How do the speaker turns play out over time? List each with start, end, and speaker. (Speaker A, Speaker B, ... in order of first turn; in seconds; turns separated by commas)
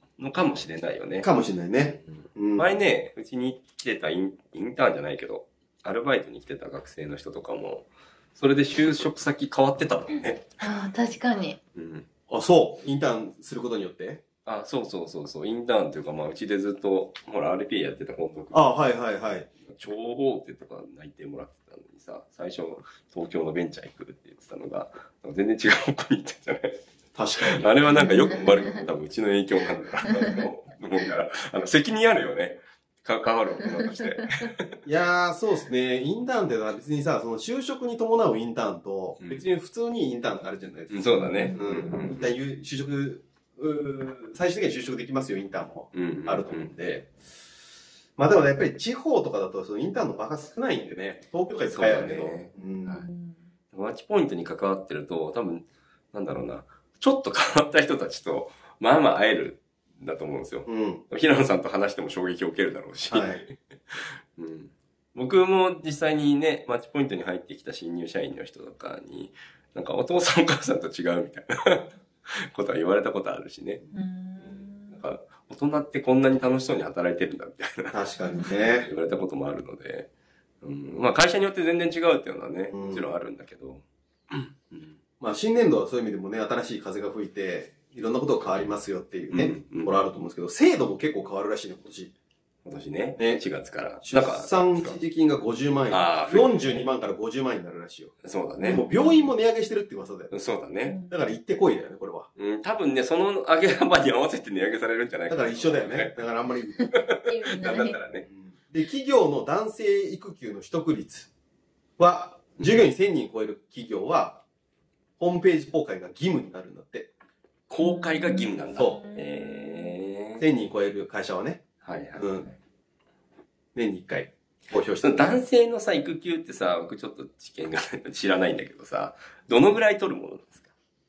Speaker A: 0.2-1.3, Speaker B: 1.2-2.8, Speaker A: 1.8-10.5, Speaker C: 10.6-11.6, Speaker A: 11.7-12.1, Speaker B: 12.3-14.2, Speaker A: 14.4-18.8, Speaker B: 18.5-19.5, Speaker A: 19.6-26.8, Speaker B: 27.1-27.7, Speaker A: 27.4-34.8, Speaker C: 28.0-28.6, Speaker B: 34.9-47.1, Speaker A: 39.2-39.4, Speaker A: 40.9-42.3, Speaker C: 41.2-41.6, Speaker A: 45.9-46.7, Speaker B: 48.2-53.0, Speaker A: 51.5-53.1, Speaker C: 52.8-53.5, Speaker A: 53.7-72.0, Speaker B: 60.6-61.0, Speaker B: 63.1-63.4, Speaker A: 72.5-73.8, Speaker C: 73.9-75.0, Speaker A: 74.4-80.1, Speaker B: 77.9-78.9, Speaker A: 80.6-85.0, Speaker B: 82.7-83.1, Speaker B: 85.2-92.1, Speaker A: 89.3-90.0, Speaker A: 92.6-95.0, Speaker B: 93.2-93.5, Speaker B: 94.0-100.3, Speaker A: 95.9-96.9, Speaker A: 98.2-98.9, Speaker C: 98.6-99.3, Speaker A: 100.3-101.0, Speaker C: 100.8-101.2, Speaker B: 101.1-102.3, Speaker A: 102.3-106.2, Speaker B: 105.3-106.9, Speaker C: 106.8-108.0, Speaker A: 107.1-108.2, Speaker B: 107.7-111.3, Speaker B: 112.0-114.4, Speaker A: 112.6-112.8, Speaker B: 115.2-117.1, Speaker A: 117.7-120.5, Speaker C: 117.8-120.0, Speaker B: 118.7-119.0, Speaker B: 120.4-122.5, Speaker A: 121.8-122.6, Speaker B: 123.7-125.4, Speaker A: 124.9-130.7